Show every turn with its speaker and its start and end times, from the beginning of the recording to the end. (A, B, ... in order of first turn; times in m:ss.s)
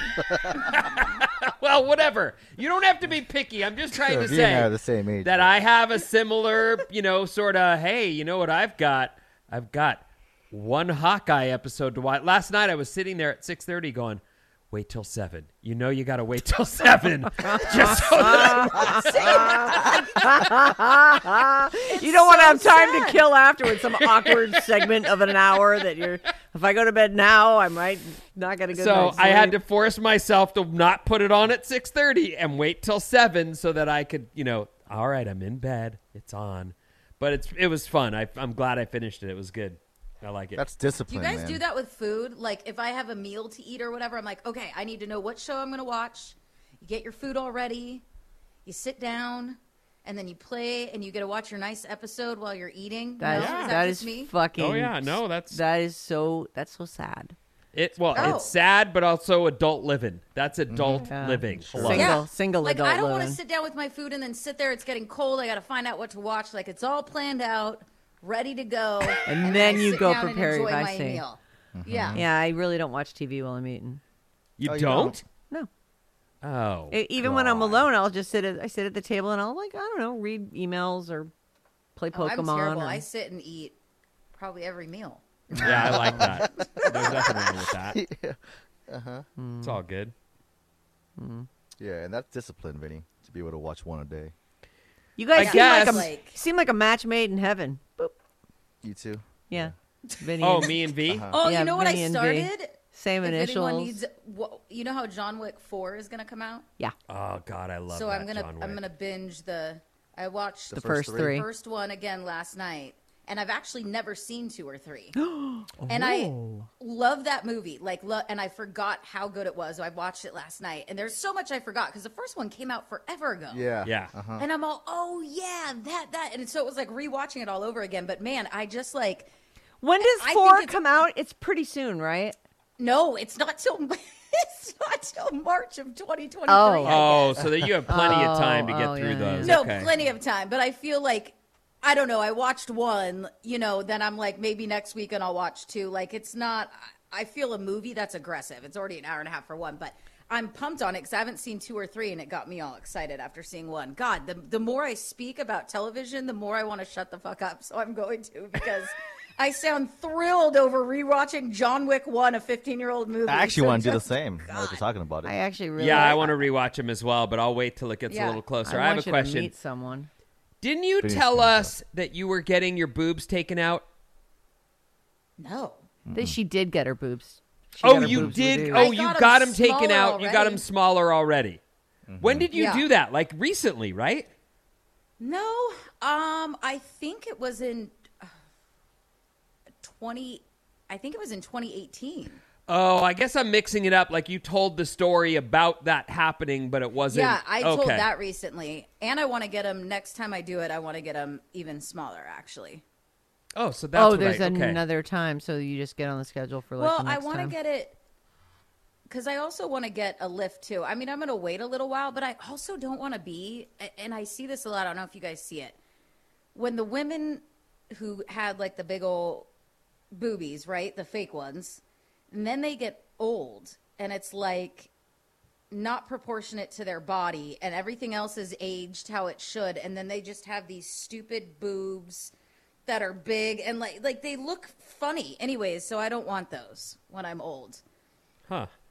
0:00.5-0:04.7 A
0:03.9-0:05.5 B
0:05.2-0:19.5 A
0:17.4-0:29.6 C
0:17.8-0:20.4 D
0:22.0-0:23.2 D
0:28.7-0:40.6 A
0:40.6-0:41.6 B
0:41.1-0:48.0 D
0:48.7-0:54.3 D
0:53.2-0:57.4 C
0:53.3-0:53.8 A
0:54.6-0:55.6 A
0:57.7-1:02.2 A
0:58.2-0:58.6 D
1:00.7-1:02.2 B
1:01.1-1:03.4 C
1:01.9-1:12.2 D
1:09.2-1:11.2 C
1:11.8-1:12.2 B
1:12.1-1:14.0 C
1:14.6-1:15.2 A
1:14.6-1:15.2 B
1:16.4-1:17.7 A
1:16.9-1:21.3 C
1:17.2-1:17.8 B
1:22.0-1:23.0 C
1:22.1-1:23.8 D
1:24.3-1:27.5 D
1:25.6-1:29.3 B
1:25.6-1:28.0 A
1:29.4-1:29.8 C
1:29.6-1:30.1 A
1:31.2-1:31.5 C
1:31.8-1:34.3 B
1:35.2-1:38.1 C
1:35.4-1:36.1 A
1:35.4-1:36.4 D
1:38.8-1:39.7 B
1:39.5-1:40.8 C
1:40.1-1:46.7 D
1:40.4-1:41.3 A
1:41.1-1:41.4 B
1:41.4-1:44.0 C
1:47.1-1:48.8 A
1:47.9-1:55.2 D
1:50.7-1:51.5 B
1:50.7-1:51.5 C
1:55.2-1:56.7 C
1:55.9-2:03.7 D
2:03.5-2:04.5 B
2:03.8-2:04.1 A
2:04.4-2:09.3 D
2:09.8-2:12.4 C
2:10.0-2:10.8 D
2:12.8-2:17.5 D
2:16.5-2:17.0 C
2:16.8-2:19.9 A
2:17.9-2:19.6 C
2:19.4-2:44.8 D
2:43.3-2:45.3 B
2:45.2-2:46.4 C
2:45.8-2:49.5 A
2:48.1-2:48.4 D
2:48.6-2:50.1 C
2:50.6-2:53.8 A
2:51.0-2:51.7 B
2:55.4-2:55.9 D
2:56.1-2:56.4 B
2:56.1-2:58.9 C
2:57.8-3:01.6 A
2:58.0-2:58.4 B
2:58.6-3:00.6 D
3:02.1-3:02.5 B
3:02.2-3:04.3 A
3:02.5-3:02.8 D
3:05.2-3:08.3 D
3:09.8-3:12.4 D
3:12.7-3:18.1 A
3:17.1-3:22.8 D
3:23.6-3:24.8 A
3:24.0-3:27.6 C
3:26.8-3:28.0 D
3:29.1-3:35.8 D
3:36.5-3:39.5 D
3:40.1-3:44.9 D
3:45.7-3:52.3 D
3:52.9-3:57.8 D